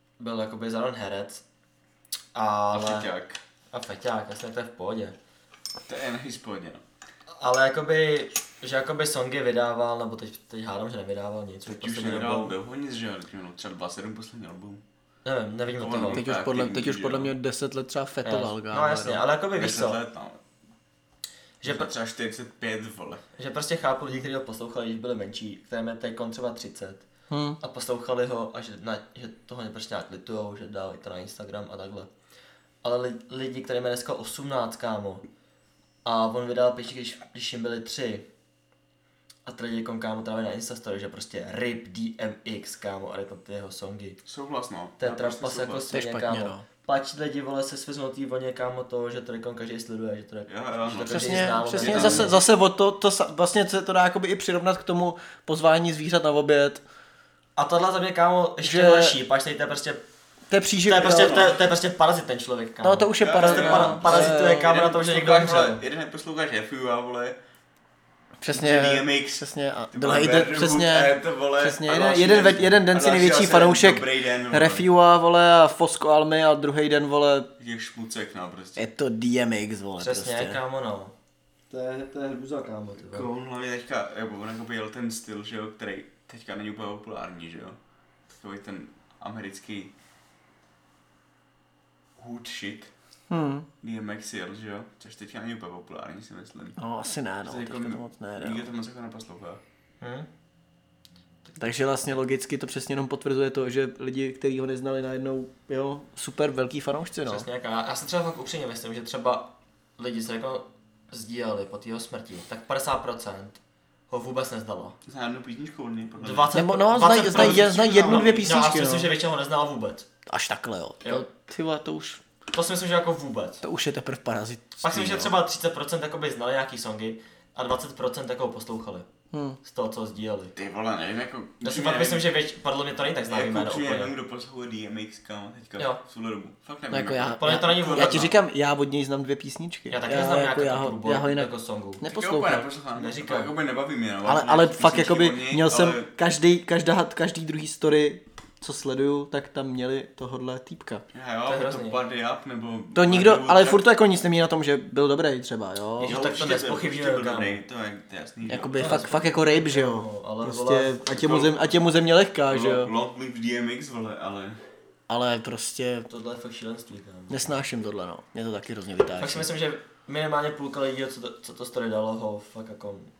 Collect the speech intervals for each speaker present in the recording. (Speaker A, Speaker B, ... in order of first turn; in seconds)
Speaker A: 0.2-1.4, 2.3-3.1, 3.7-5.2, 7.4-12.6, 15.2-16.2, 18.2-20.0, 21.6-21.9, 23.4-27.1, 27.6-32.1, 32.8-35.2, 36.0-38.3, 39.5-44.2, 45.0-52.4, 57.5-60.0, 60.9-65.8, 80.0-81.1, 81.7-83.3, 100.0-100.3, 107.3-113.6, 114.1-115.0, 116.2-120.1, 122.5-123.6, 124.8-129.1, 129.6-130.6, 131.6-134.1, 137.4-138.3, 139.9-142.0, 142.9-143.5, 151.4-152.0, 156.0-157.6, 158.8-161.0, 166.1-167.5, 169.2-173.1
Speaker B: 2.7-3.4, 5.9-6.8, 11.7-14.8, 15.8-17.3, 19.5-20.4, 21.6-23.2, 44.2-46.0, 50.5-52.4, 61.0-61.6, 63.2-67.4, 68.5-74.9, 77.6-78.9, 83.0-87.8, 88.3-89.9, 92.2-92.9, 93.8-96.8, 97.4-99.6, 115.0-116.6, 117.3-117.8, 130.6-132.3, 133.3-138.3, 142.0-146.1, 151.1-153.9, 156.0-159.0, 161.1-161.8, 162.5-164.6
Speaker C: 16.1-19.2, 27.3-27.6, 45.9-46.6, 51.1-56.8, 58.6-59.2, 60.5-61.4, 62.8-64.7, 68.4-77.5, 78.8-80.6, 93.3-93.7, 96.8-98.7, 101.6-107.5, 116.5-119.1, 120.3-122.2, 123.6-125.3, 129.3-129.6, 136.9-142.7, 144.2-151.0, 152.9-156.1, 158.5-162.9, 165.1-166.1, 167.3-169.5